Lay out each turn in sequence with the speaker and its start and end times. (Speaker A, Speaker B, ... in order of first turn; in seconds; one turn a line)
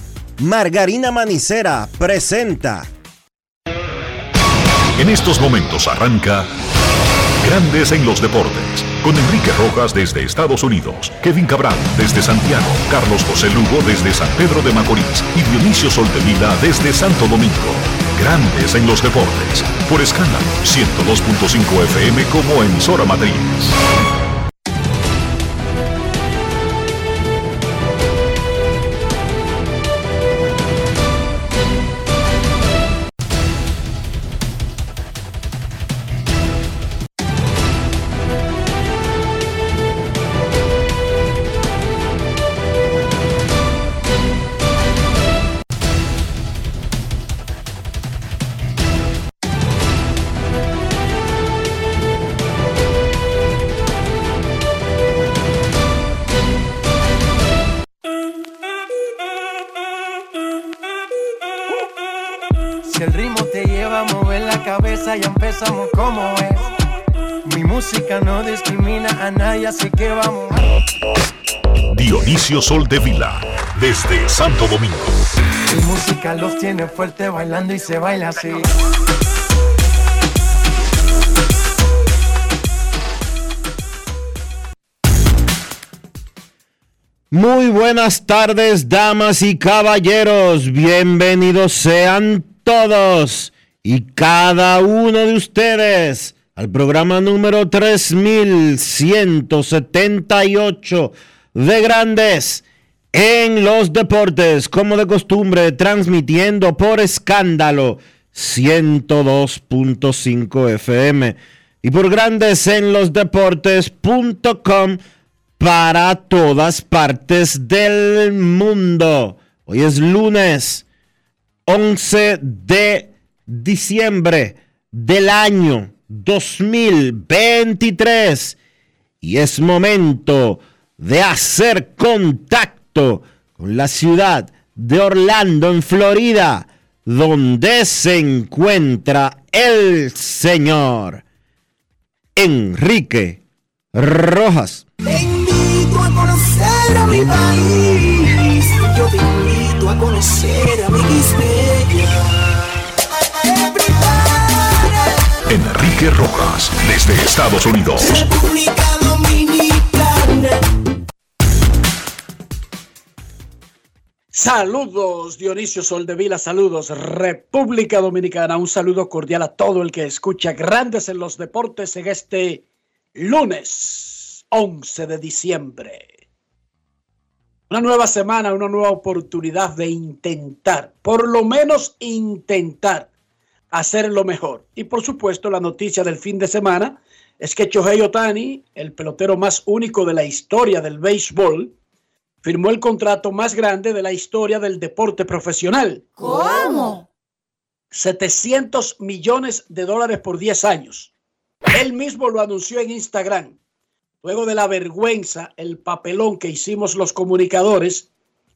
Speaker A: 0.4-2.9
Speaker B: 5.0-6.5
Speaker B: 7.4-23.7
Speaker C: 62.9-66.6
Speaker C: 67.5-70.6
Speaker B: 71.9-75.2
Speaker C: 75.7-78.7
Speaker A: 87.3-115.0
Speaker A: 115.6-120.8
Speaker A: 121.7-128.6
Speaker A: 129.2-141.2
Speaker A: 142.4-143.4
Speaker A: 143.9-144.9
Speaker D: 145.1-152.2
Speaker D: 153.5-155.0
Speaker B: 155.5-158.2
Speaker D: 157.9-160.6
Speaker E: 164.3-172.6
Speaker E: 173.2-176.1
Speaker E: 177.7-183.1
Speaker E: 183.7-191.7
Speaker E: 192.4-196.1
Speaker D: 196.7-197.0
Speaker E: 197.9-201.1
Speaker E: 201.7-203.6
Speaker E: 204.2-208.1